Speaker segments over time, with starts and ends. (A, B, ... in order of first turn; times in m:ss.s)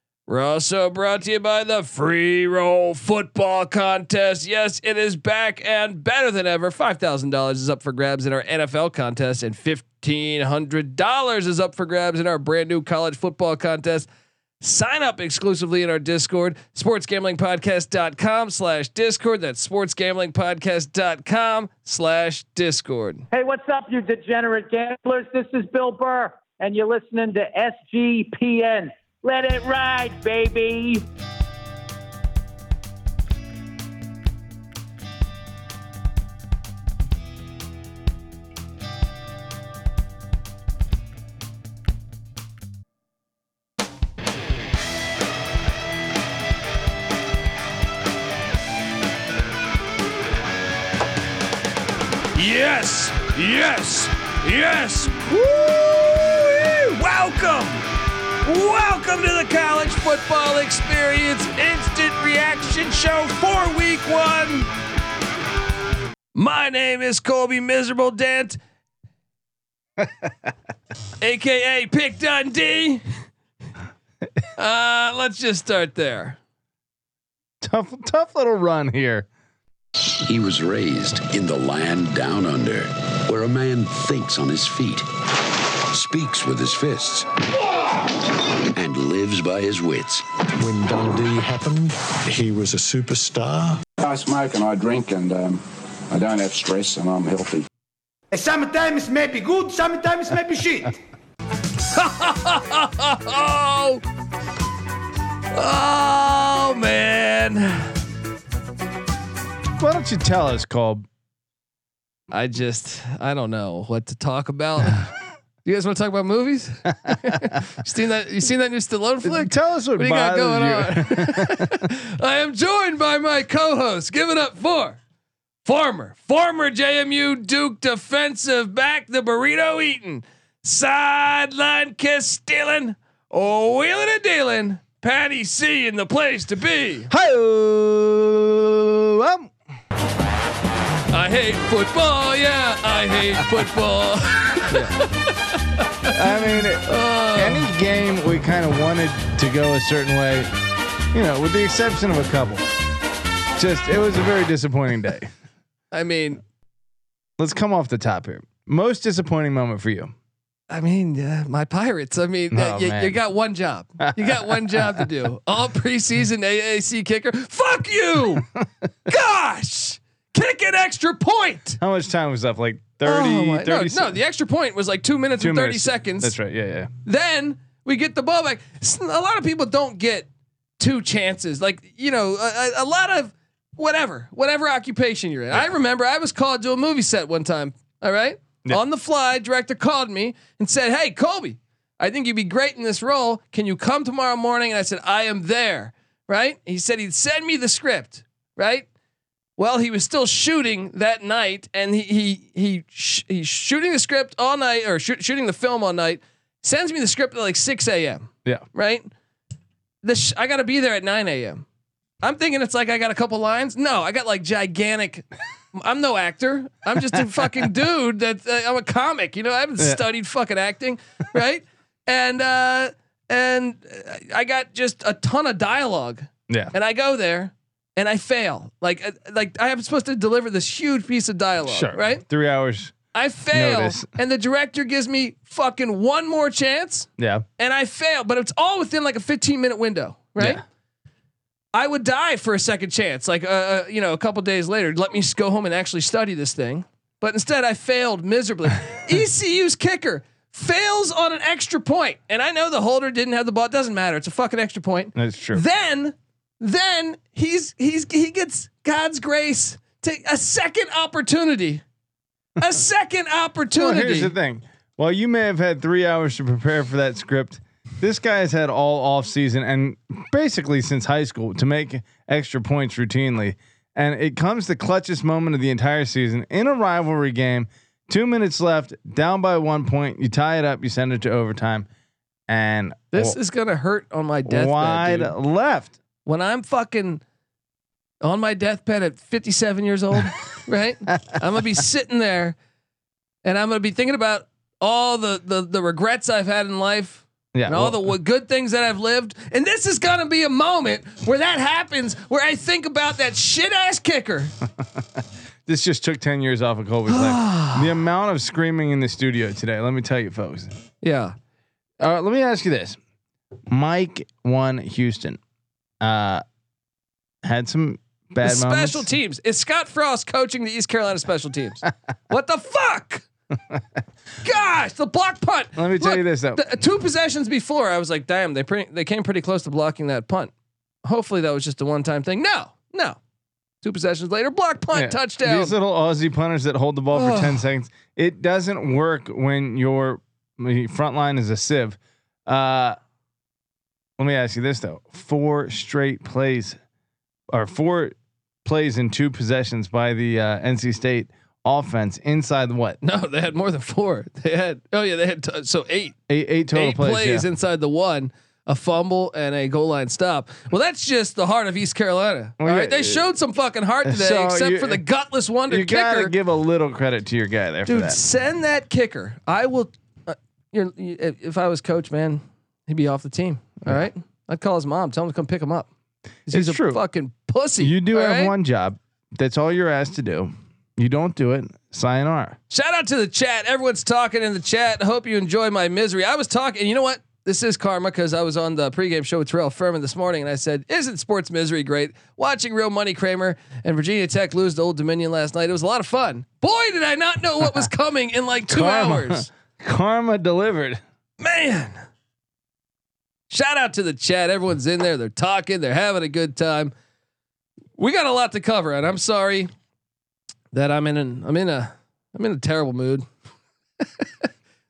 0:00.3-0:14.1 A
0:14.6-0:23.3 A
0:23.3-0:31.0 B
0:52.3-0:57.8 A
0:58.4-1:04.7 A
1:06.3-1:08.6 A
1:11.2-1:13.0 A
1:14.6-1:16.4 A
1:17.6-1:19.3 C
1:20.2-1:25.1 D
1:25.9-1:27.3 D
1:28.8-1:30.3 D
1:30.6-1:33.8 E
1:34.0-1:37.6 F
1:38.3-1:41.0 G
1:41.9-1:44.0 A
1:45.5-1:47.9 A
1:49.8-1:51.1 C
1:52.3-1:55.1 A
1:55.6-2:05.0 A
1:59.2-2:01.8 C
2:05.6-2:17.1 A
2:17.1-2:19.5 C
2:21.1-2:26.2 A
2:26.1-2:30.5 C
2:26.8-2:27.7 A
2:31.1-2:32.7 C
2:33.6-2:35.3 C
2:35.9-2:36.4 A
2:37.4-2:40.1 C
2:40.7-2:48.5 A
2:42.5-2:43.2 C
2:44.0-2:45.0 C
2:49.1-2:51.8 A
2:51.8-2:54.2 C
2:53.0-2:56.4 A
2:55.4-2:56.9 C
2:57.0-3:00.3 A
3:00.8-3:18.9 A
3:19.6-3:29.1 A
3:30.0-3:31.6 A
3:32.2-3:52.2 A
3:46.5-3:46.7 C
3:51.7-3:53.0 C
3:53.1-4:00.6 A
3:53.5-3:54.1 C
3:57.2-3:57.4 C
4:01.7-4:21.8 A
4:15.2-4:15.6 C
4:22.6-4:24.3 A
4:23.7-4:41.9 C
4:42.5-4:43.4 C
4:43.1-4:45.3 A
4:44.5-4:46.0 C
4:46.2-4:47.2 A
4:48.2-4:52.6 A
4:53.4-5:04.5 A
4:57.5-4:58.1 C
5:05.7-5:10.8 C
5:07.1-5:07.9 A
5:11.0-5:11.4 A
5:12.0-5:13.0 C
5:13.7-5:15.4 C
5:16.0-5:16.4 C
5:17.4-5:19.0 C
5:18.4-5:23.2 A
5:24.4-5:30.5 A
5:25.8-5:26.7 C
5:31.0-5:33.2 A
5:33.8-5:35.8 A
5:34.9-5:43.0 C
5:37.1-5:37.7 A
5:44.2-5:46.8 C
5:47.5-5:53.0 C
5:53.0-5:56.2 A
5:56.3-5:57.5 C
5:56.7-6:06.3 A
6:02.6-6:03.2 C
6:04.0-6:05.0 C
6:05.7-6:08.2 C
6:07.9-6:15.9 A
6:16.5-6:18.5 A
6:16.5-6:17.0 C
6:17.8-6:22.6 C
6:22.7-6:39.5 A
6:38.6-6:41.0 C
6:41.4-6:42.0 A
6:43.5-6:46.9 A
6:48.0-6:49.7 A
6:50.7-6:53.3 A
6:54.2-6:54.5 A